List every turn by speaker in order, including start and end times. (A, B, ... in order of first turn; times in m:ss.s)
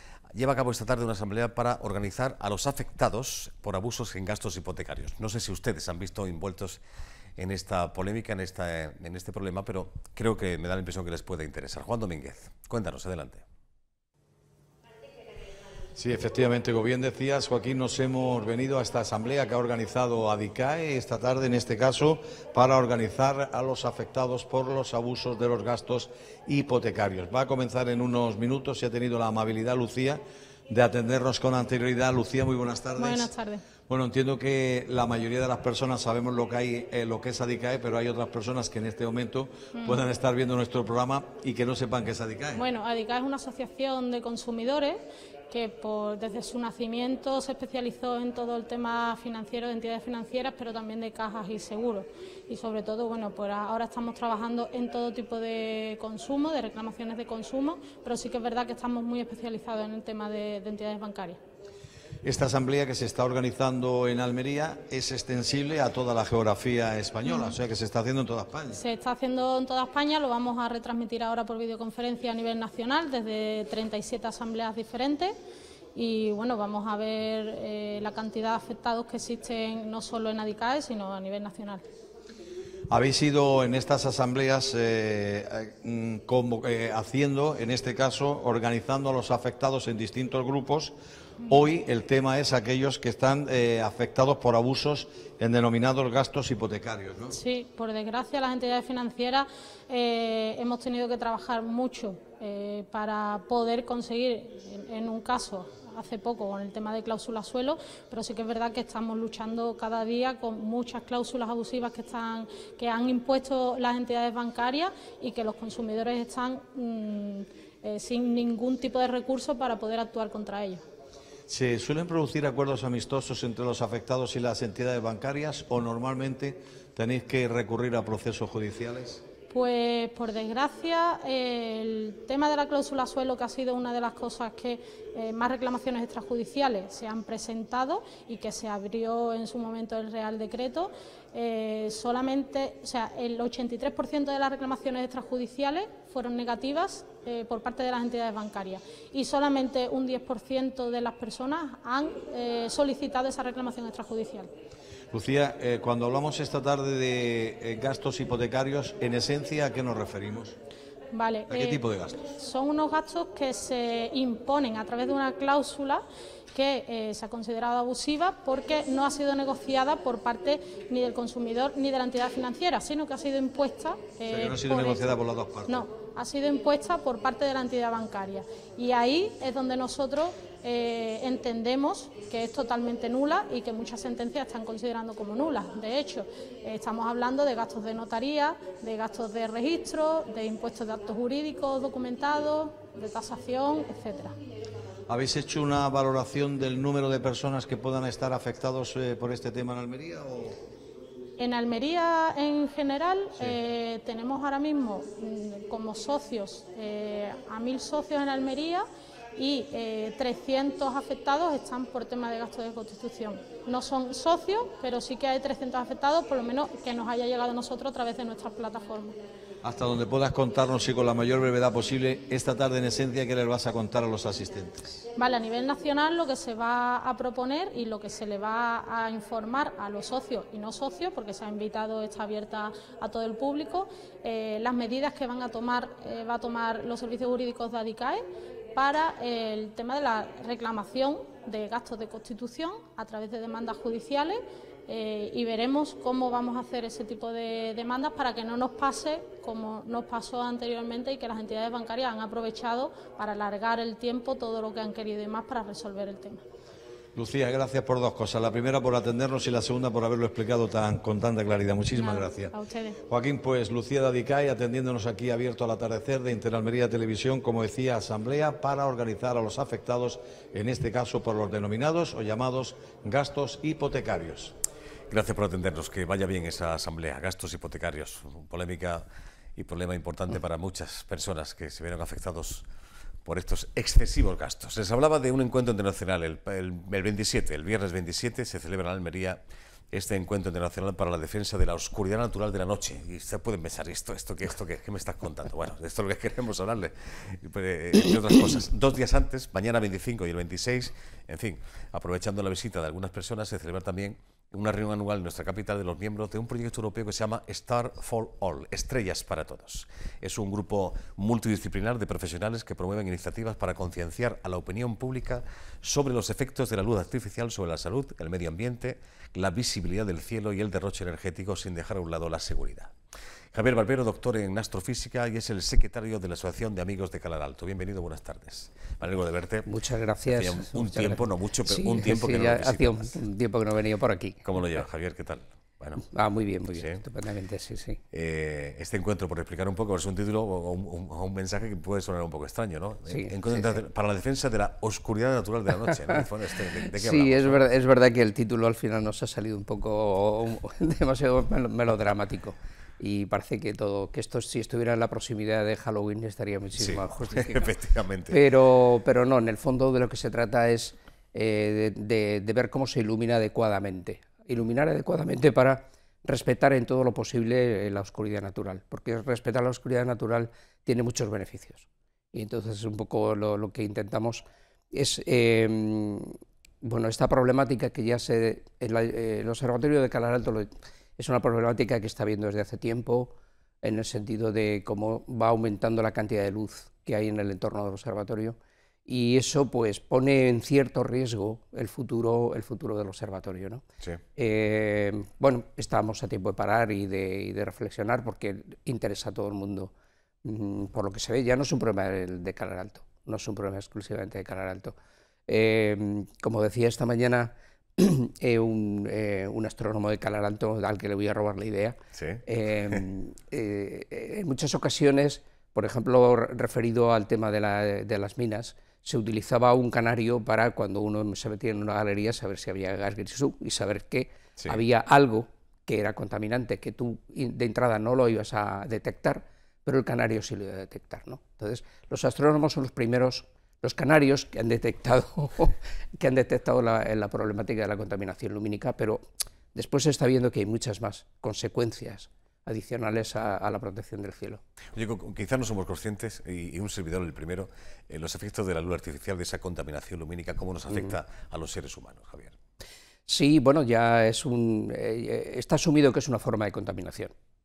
0:00.3-0:06.8 A
0:07.4-0:13.4 A
0:16.0-0:33.3 B
0:33.0-0:33.6 C
0:33.9-0:42.6 B
0:39.7-0:40.0 C
0:42.5-0:45.0 C
0:45.5-1:01.4 C
1:02.2-1:08.8 B
1:07.2-1:07.6 C
1:08.7-1:15.3 C
1:15.9-1:21.8 C
1:22.9-1:30.9 B
1:31.5-1:37.3 B
1:37.3-2:00.8 C
2:01.5-2:09.2 B
2:09.5-2:34.5 C
2:35.1-2:40.5 B
2:41.1-2:41.8 C
2:41.5-2:42.2 B
2:42.3-2:46.0 C
2:46.5-3:14.3 C
2:54.3-2:55.8 B
3:15.1-3:20.6 B
3:21.4-3:28.8 C
3:29.4-3:39.2 C
3:39.6-3:44.9 B
3:45.2-3:58.2 C
3:58.7-4:16.4 C
4:17.2-4:22.5 B
4:21.9-4:23.0 C
4:23.1-4:34.5 B
4:35.1-4:39.0 A
4:39.6-4:42.6 A
4:43.2-4:49.4 A
4:49.9-5:22.9 A
5:23.5-5:29.7 A
5:29.6-5:34.4 D
5:30.2-5:33.1 A
5:34.4-5:36.1 A
5:36.0-5:38.0 D
5:36.7-5:37.0 A
5:38.1-5:47.6 A
5:43.1-5:43.8 D
5:46.9-5:57.7 D
5:56.8-5:58.4 A
5:58.3-6:33.8 D
6:34.4-6:39.9 D
6:40.4-6:44.9 D
6:45.5-7:24.6 D
6:52.1-6:52.4 A
7:24.9-7:32.5 A
7:33.3-7:37.3 D